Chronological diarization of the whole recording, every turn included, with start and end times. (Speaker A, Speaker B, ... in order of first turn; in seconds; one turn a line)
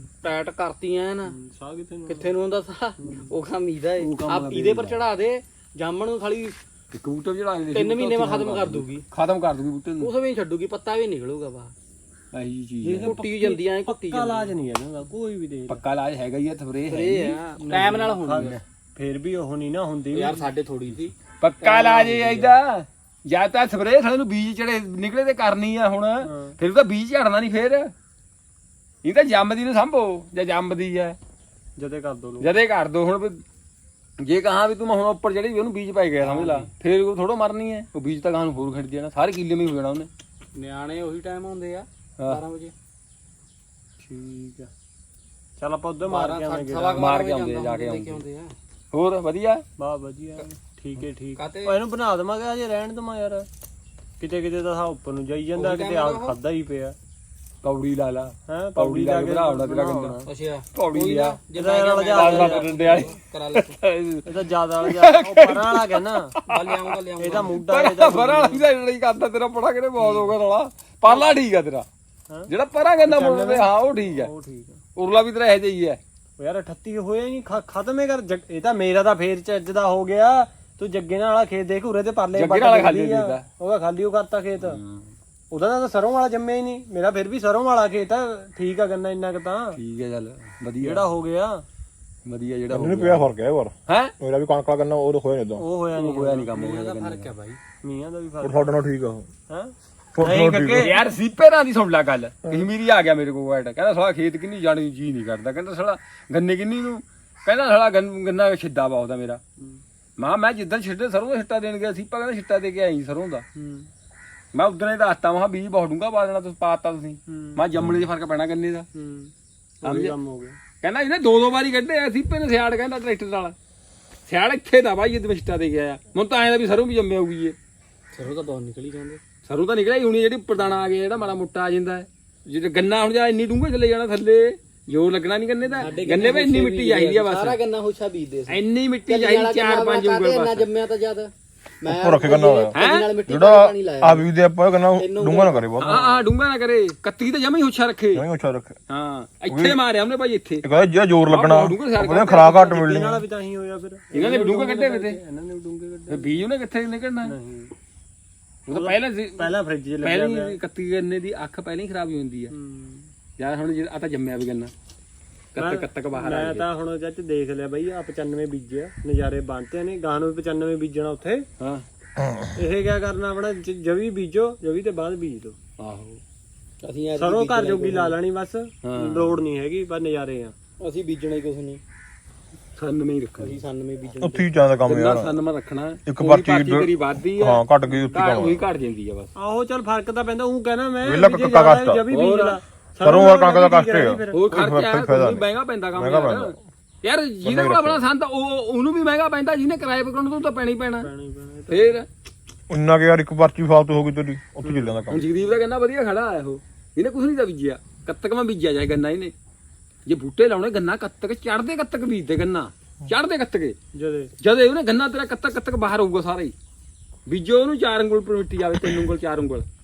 Speaker A: 0.2-1.4
Speaker B: 1.3-2.3
Speaker A: 2.1-6.6
Speaker B: 3.0-3.3
Speaker B: 4.0-5.0
Speaker C: 6.9-10.1
Speaker A: 7.7-9.0
Speaker A: 10.0-11.7
Speaker C: 12.3-13.2
Speaker B: 12.8-15.8
Speaker A: 13.0-14.5
Speaker C: 15.7-17.4
Speaker A: 16.9-18.6
Speaker B: 17.6-20.5
Speaker A: 20.1-22.5
Speaker C: 21.4-27.9
Speaker B: 26.2-26.5
Speaker C: 29.0-31.2
Speaker B: 31.8-32.5
Speaker C: 32.4-33.4
Speaker C: 34.2-40.1
Speaker A: 36.2-36.7
Speaker A: 40.5-42.7
Speaker B: 44.0-44.7
Speaker B: 45.6-47.0
Speaker A: 46.1-48.5
Speaker C: 47.0-48.2
Speaker C: 48.9-49.6
Speaker B: 49.8-53.5
Speaker A: 51.4-51.8
Speaker B: 54.2-57.0
Speaker A: 55.6-56.4
Speaker C: 57.6-60.2
Speaker B: 58.5-60.3
Speaker A: 60.2-63.8
Speaker C: 60.8-61.4
Speaker B: 61.5-63.1
Speaker C: 62.1-66.9
Speaker B: 64.2-66.3
Speaker A: 66.5-67.6
Speaker B: 67.2-68.6
Speaker C: 67.5-71.8
Speaker C: 72.5-74.3
Speaker B: 73.1-74.8
Speaker C: 75.0-76.0
Speaker B: 76.4-84.8
Speaker C: 82.3-83.5
Speaker C: 84.6-85.1
Speaker B: 85.5-89.8
Speaker C: 89.8-91.1
Speaker B: 90.8-91.6
Speaker C: 92.2-93.3
Speaker D: 92.7-95.6
Speaker C: 93.9-94.1
Speaker B: 95.6-96.5
Speaker C: 96.0-97.3
Speaker A: 96.5-97.6
Speaker B: 97.8-98.7
Speaker D: 98.4-99.3
Speaker B: 99.5-101.0
Speaker D: 100.1-101.0
Speaker C: 100.7-109.4
Speaker C: 110.2-113.5
Speaker B: 113.5-113.9
Speaker C: 114.5-118.9
Speaker B: 117.3-117.8
Speaker B: 118.9-120.6
Speaker C: 119.8-120.2
Speaker C: 120.8-123.5
Speaker C: 124.3-127.6
Speaker A: 128.1-129.2
Speaker C: 129.4-137.6
Speaker A: 135.8-144.3
Speaker C: 138.5-140.7
Speaker D: 141.9-142.8
Speaker C: 142.7-143.1
Speaker D: 143.3-146.0
Speaker A: 144.9-146.2
Speaker C: 145.8-148.2
Speaker D: 148.1-148.8
Speaker C: 148.9-150.7
Speaker D: 149.5-149.8
Speaker D: 150.6-153.2
Speaker C: 151.2-152.8
Speaker B: 152.6-156.3
Speaker C: 154.1-155.2
Speaker C: 156.1-157.3
Speaker B: 157.2-157.7
Speaker C: 158.7-162.5
Speaker B: 158.7-160.6
Speaker B: 162.5-163.1
Speaker C: 163.4-164.7
Speaker C: 165.5-166.7
Speaker B: 165.6-171.5
Speaker D: 172.2-172.5
Speaker B: 172.6-175.6
Speaker C: 175.8-176.2
Speaker A: 176.8-178.2
Speaker B: 177.2-180.5
Speaker C: 178.8-179.4
Speaker A: 180.8-181.8
Speaker C: 182.8-183.6
Speaker A: 183.4-184.5
Speaker D: 184.2-185.3
Speaker C: 184.8-189.3
Speaker D: 186.1-188.7
Speaker B: 189.4-194.4
Speaker D: 191.0-192.0
Speaker C: 192.1-192.6
Speaker D: 193.0-196.6
Speaker C: 194.3-201.1
Speaker D: 197.4-198.0
Speaker B: 201.0-202.0
Speaker C: 201.7-202.1
Speaker D: 202.7-205.2
Speaker B: 204.6-205.0
Speaker C: 205.1-209.3
Speaker C: 210.1-213.8
Speaker B: 213.9-214.3
Speaker C: 214.4-216.5
Speaker C: 217.3-219.7